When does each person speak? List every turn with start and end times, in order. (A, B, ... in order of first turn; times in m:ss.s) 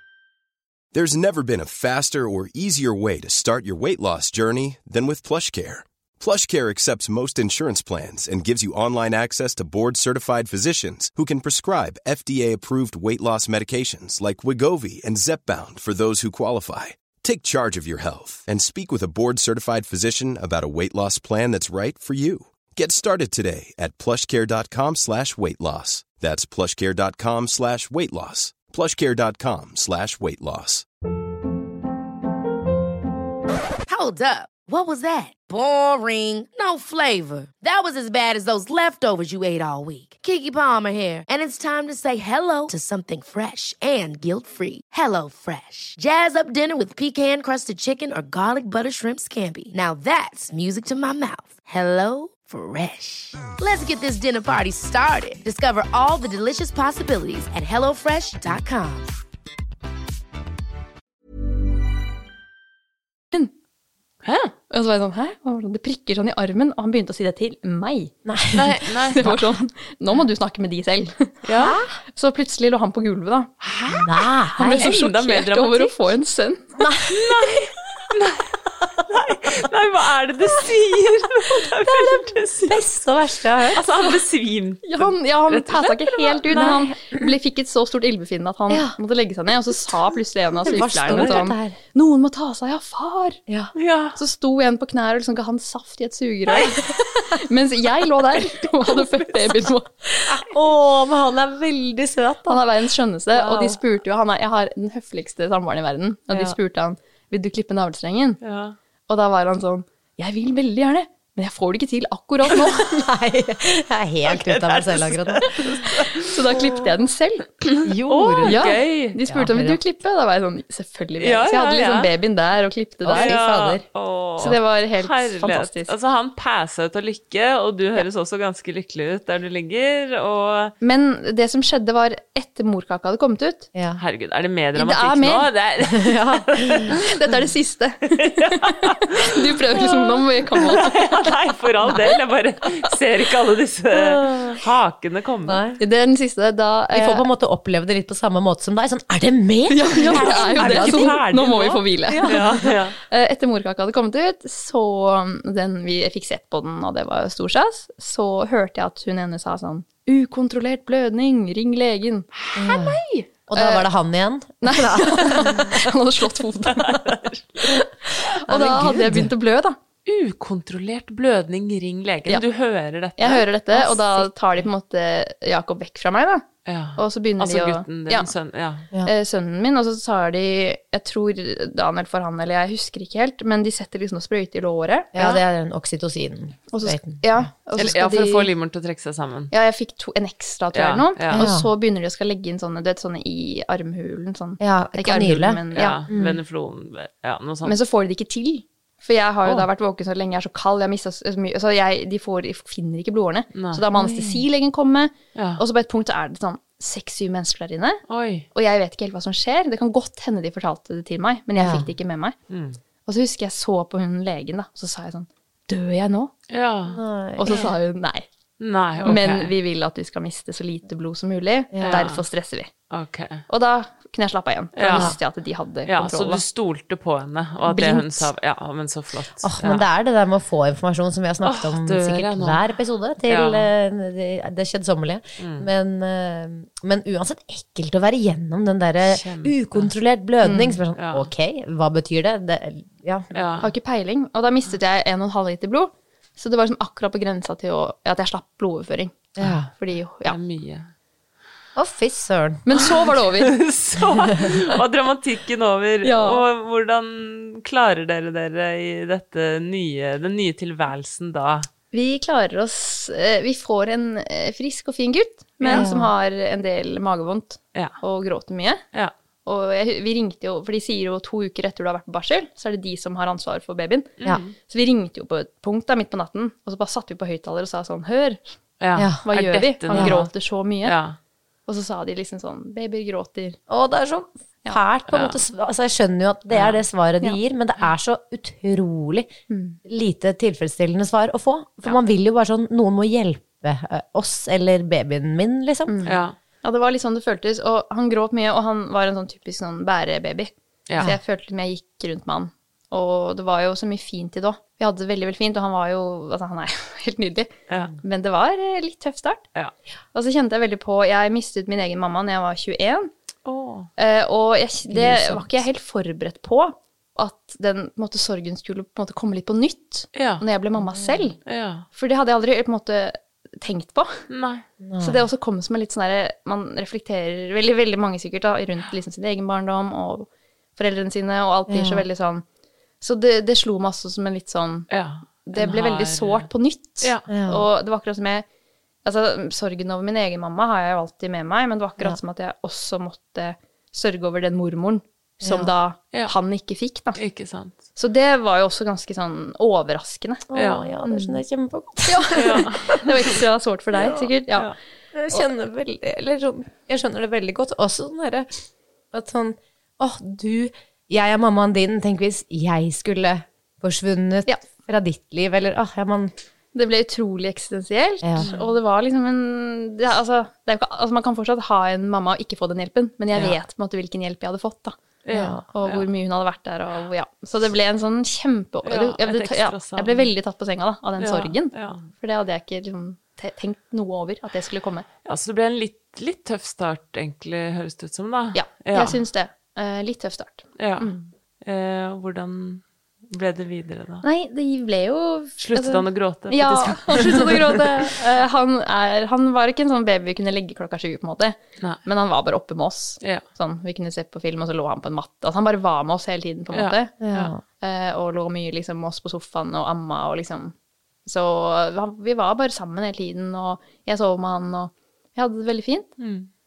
0:00.9-0:30.8 A
0:33.9-0:59.1 B
1:04.2-1:04.5 C
1:04.7-1:08.1 D
1:08.2-1:09.5 E
1:08.5-1:09.2 C
1:09.2-1:11.3 D
1:11.4-1:11.8 C
1:11.6-1:11.9 E
1:12.1-1:13.5 D
1:13.6-1:16.0 C
1:13.9-1:14.9 E
1:14.6-1:16.7 D
1:16.8-1:17.2 E
1:17.1-1:22.8 C
1:21.5-1:23.8 E
1:23.7-1:26.8 C
1:24.8-1:33.4 D
1:26.5-1:27.3 E
1:28.7-1:28.9 E
1:30.6-1:31.8 E
1:31.1-1:31.4 C
1:33.7-1:34.2 C
1:34.2-1:39.9 D
1:36.6-1:36.9 E
1:40.1-1:42.6 E
1:42.4-1:48.4 D
1:43.4-1:43.7 C
1:46.3-1:46.6 E
1:48.4-1:48.8 C
1:49.1-1:53.0 D
1:52.5-1:55.8 E
1:54.3-1:56.8 C
1:56.1-1:57.4 D
1:57.7-1:59.2 C
1:57.8-1:58.6 E
1:58.4-2:03.8 D
1:59.2-1:59.8 E
2:01.2-2:02.1 C
2:03.0-2:03.3 E
2:03.1-2:10.7 C
2:04.4-2:05.9 D
2:10.8-2:13.7 D
2:13.7-2:14.0 E
2:14.0-2:17.0 C
2:14.7-2:15.5 D
2:15.9-2:17.0 E
2:17.0-2:21.3 D
2:18.2-2:19.0 C
2:19.7-2:25.6 C
2:23.9-2:24.4 E
2:25.4-2:25.8 E
2:25.8-2:27.2 D
2:26.9-2:31.5 E
2:29.7-2:32.4 D
2:30.0-2:33.0 C
2:32.1-2:32.8 E
2:33.1-2:42.3 D
2:42.5-2:43.1 C
2:42.5-2:45.8 E
2:43.5-2:43.8 D
2:44.6-2:47.0 D
2:46.8-2:47.6 C
2:48.4-2:49.8 D
2:48.5-2:49.3 E
2:50.0-2:53.4 C
2:53.2-2:56.4 D
2:56.6-2:58.9 C
2:57.0-2:58.3 D
2:59.0-3:05.4 D
3:05.1-3:07.5 E
3:06.7-3:08.5 D
3:07.8-3:09.5 C
3:09.5-3:16.0 D
3:10.7-3:11.5 C
3:11.3-3:11.7 E
3:14.6-3:16.4 E
3:15.7-3:17.8 C
3:17.6-3:32.3 D
3:23.5-3:23.8 C
3:24.0-3:24.4 E
3:25.3-3:25.6 C
3:28.1-3:28.5 C
3:31.6-3:31.9 E
3:32.5-3:32.8 C
3:33.0-3:36.3 D
3:36.5-3:37.7 C
3:36.9-3:37.7 E
3:37.4-3:38.3 D
3:38.6-3:39.5 C
3:39.0-3:42.7 D
3:41.7-3:42.1 E
3:41.8-3:42.2 C
3:42.9-3:43.4 C
3:43.5-3:46.4 D
3:44.8-3:45.2 C
3:45.9-3:49.8 C
3:47.7-3:48.0 D
3:47.7-3:48.0 E
3:49.4-4:03.3 E
3:51.4-3:52.7 C
3:53.2-3:53.7 C
3:55.4-3:55.7 C
3:59.0-3:59.9 C
4:00.4-4:01.3 C
4:03.3-4:03.7 C
4:03.6-4:10.4 D
4:09.4-4:09.7 E
4:10.2-4:10.9 C
4:11.8-4:12.6 E
4:12.6-4:13.6 D
4:13.4-4:21.7 C
4:14.2-4:14.5 E
4:16.0-4:16.4 D
4:21.9-4:28.8 D
4:25.7-4:26.1 E
4:29.4-4:38.4 D
4:34.2-4:34.5 C
4:38.8-4:40.3 C
4:39.0-4:39.2 E
4:39.2-4:40.9 D
4:39.9-4:40.2 E
4:40.8-4:41.2 C
4:41.7-4:43.6 D
4:43.7-4:49.3 E
4:45.1-4:45.4 C
4:46.5-4:46.8 C
4:49.5-4:49.8 D
4:49.8-4:56.0 E
4:55.9-5:07.5 D
4:56.0-4:56.4 C
5:07.7-5:07.9 C
5:08.0-5:09.4 D
5:10.1-5:13.1 D
5:13.4-5:13.9 C
5:14.0-5:21.4 D
5:14.9-5:15.6 E
5:20.1-5:20.4 C
5:20.9-5:21.2 E
5:21.4-5:21.8 C
5:21.9-5:24.2 D
5:24.3-5:24.6 C
5:24.8-5:25.2 E
5:25.0-5:32.4 D
5:31.7-5:32.0 E
5:33.0-5:34.9 D
5:34.9-5:36.5 C
5:35.4-5:38.4 D
5:37.0-5:37.2 C
5:37.3-5:37.6 E
5:39.0-5:47.2 D
5:45.4-5:45.7 E
5:47.2-5:47.8 C
5:47.9-5:50.4 D
5:50.5-5:53.0 E
5:50.5-5:50.9 C
5:51.0-5:51.4 D
5:52.0-5:54.7 D
5:52.4-5:52.9 C
5:54.0-5:54.3 E
5:55.1-5:58.5 E
5:59.1-6:06.3 E
6:06.7-6:15.0 D
6:08.2-6:08.5 E
6:08.4-6:08.7 C
6:15.2-6:16.1 C
6:15.3-6:15.6 E
6:15.7-6:25.1 D
6:18.8-6:20.3 C
6:21.2-6:22.0 C
6:25.2-6:29.2 C
6:28.5-6:31.3 D
6:30.8-6:31.1 C
6:31.6-6:34.2 C
6:34.2-6:50.7 D
6:35.6-6:38.1 C
6:47.2-6:47.6 E
6:51.2-6:56.1 D
6:56.2-6:56.5 C